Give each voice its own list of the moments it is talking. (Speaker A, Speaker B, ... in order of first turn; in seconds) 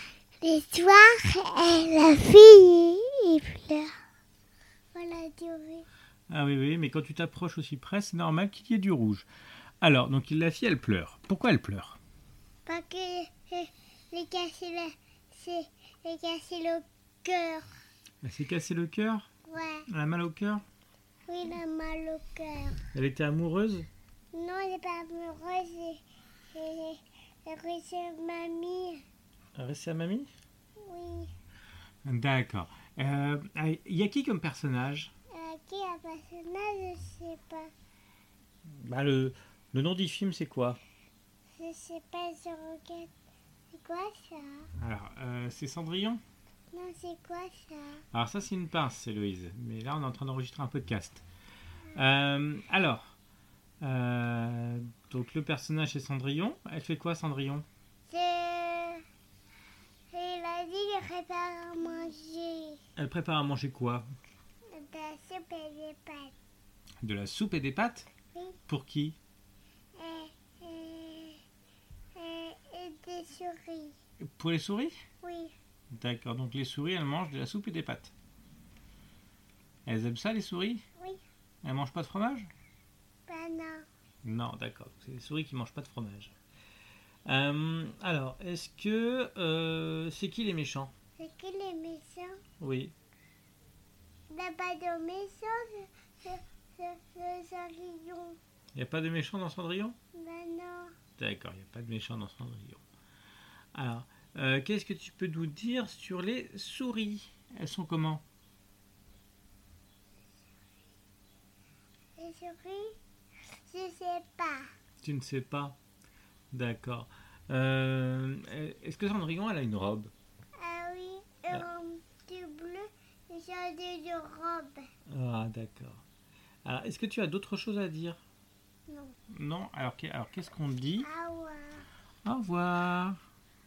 Speaker A: 0.4-3.9, 4.9-5.9, 12.7-17.7, 19.5-19.9, 21.3-22.8, 24.3-29.0, 30.8-31.3, 35.3-37.7, 41.6-43.1, 43.7-44.7, 46.7-48.0, 58.1-59.0, 60.1-62.8, 64.7-66.3, 68.3-68.6, 70.0-71.4, 72.2-74.0, 75.2-75.5, 83.3-83.9, 91.2-92.4, 94.3-98.4, 100.1-101.0, 112.2-113.0, 113.6-114.7, 120.6-124.9, 128.9-129.2, 131.0-131.9
Speaker B: 6.3-9.3, 9.8-12.0, 18.2-19.3, 19.9-20.6, 22.9-23.9, 29.6-30.3, 32.0-35.1, 38.7-40.8, 44.8-46.2, 48.1-51.2, 52.0-53.1, 53.8-57.7, 63.0-64.1, 67.0-68.1, 68.7-69.2, 74.2-75.0, 75.9-78.1, 79.9-80.8, 81.6-82.5, 84.2-86.3, 87.3-90.9, 92.6-92.9, 98.8-100.0, 101.2-102.8, 103.7-108.2, 115.0-115.8, 116.5-120.1, 125.1-126.0, 126.7-128.2, 129.3-131.1, 132.2-133.2